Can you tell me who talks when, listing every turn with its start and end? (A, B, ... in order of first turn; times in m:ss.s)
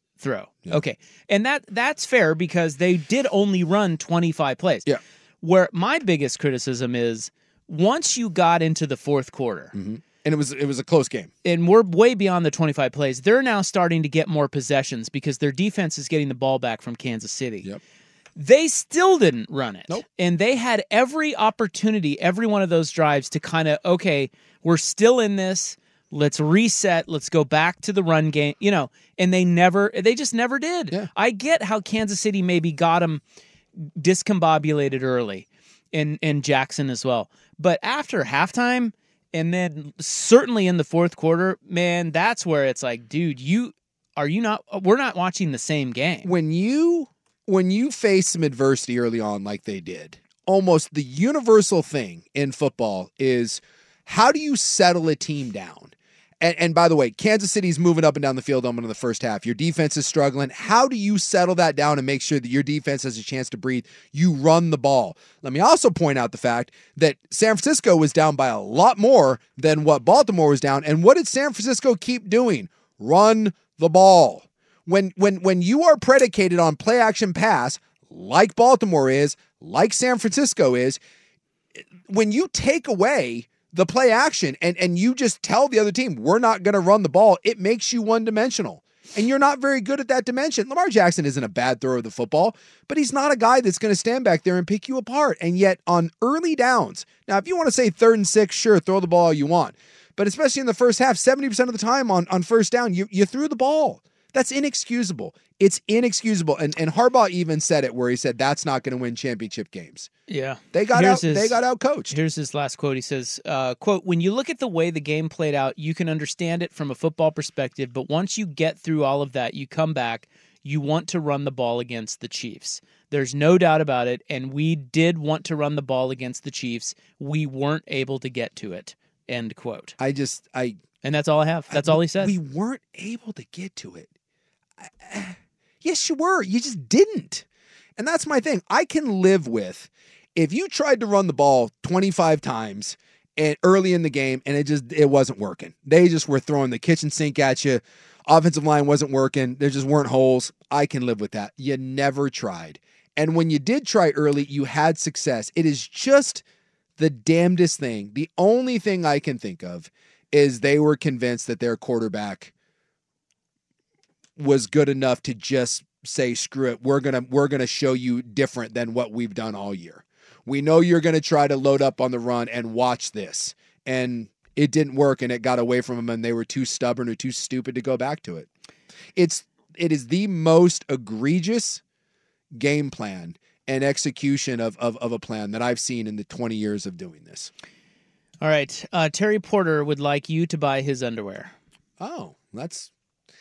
0:00.2-0:04.9 A
0:05.4-0:09.8 A
0:09.7-0:11.3 B
0:11.4-0:17.7 A
0:18.4-0:33.2 A
0:33.8-0:46.3 A
0:46.2-1:21.0 B
1:22.0-1:50.1 B
1:50.3-2:10.0 A
1:50.7-1:52.2 B
2:10.0-2:10.8 B
2:11.0-2:12.3 A
2:11.7-2:14.1 B
2:14.8-2:17.4 B
2:18.0-2:36.4 B
2:37.0-2:42.5 B
2:44.4-2:58.5 B
2:59.2-3:01.8 B
3:02.5-3:07.5 B
3:08.4-3:11.5 A
3:12.0-3:12.9 B